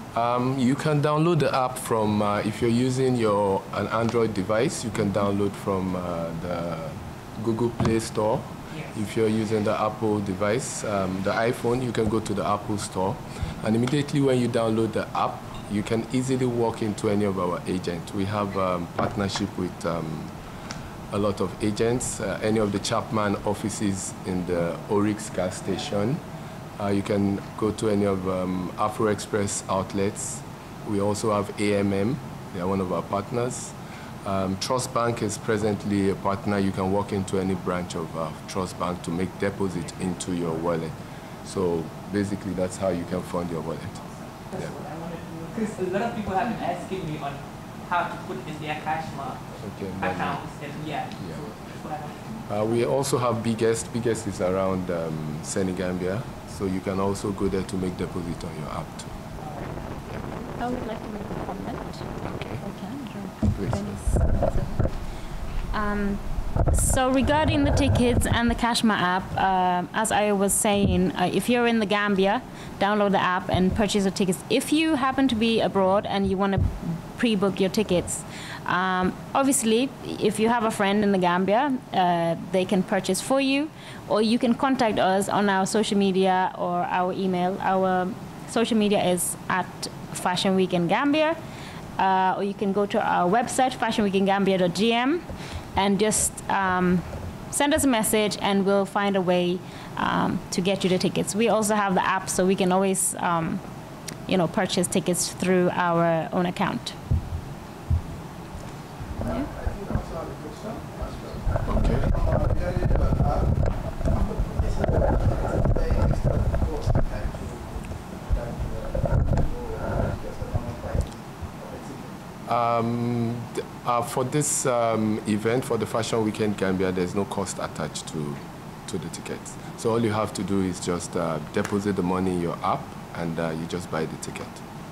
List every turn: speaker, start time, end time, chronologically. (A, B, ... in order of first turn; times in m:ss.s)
0:00.1-0:20.4 A
0:08.7-0:09.0 B
0:21.1-0:26.2 A
0:26.8-0:44.0 A
0:44.0-0:49.5 B
0:49.6-0:50.4 A
0:50.0-0:52.4 B
0:52.5-0:59.1 A
0:59.4-0:59.8 B
1:00.6-1:02.1 C
1:02.2-1:02.6 A
1:02.6-1:05.0 C
1:03.5-1:04.0 A
1:05.7-1:31.4 C
1:32.0-1:35.2 C
1:35.8-1:43.6 C
1:44.3-1:47.0 C
1:49.2-1:49.5 C
1:51.7-1:52.2 A
2:02.5-2:14.6 A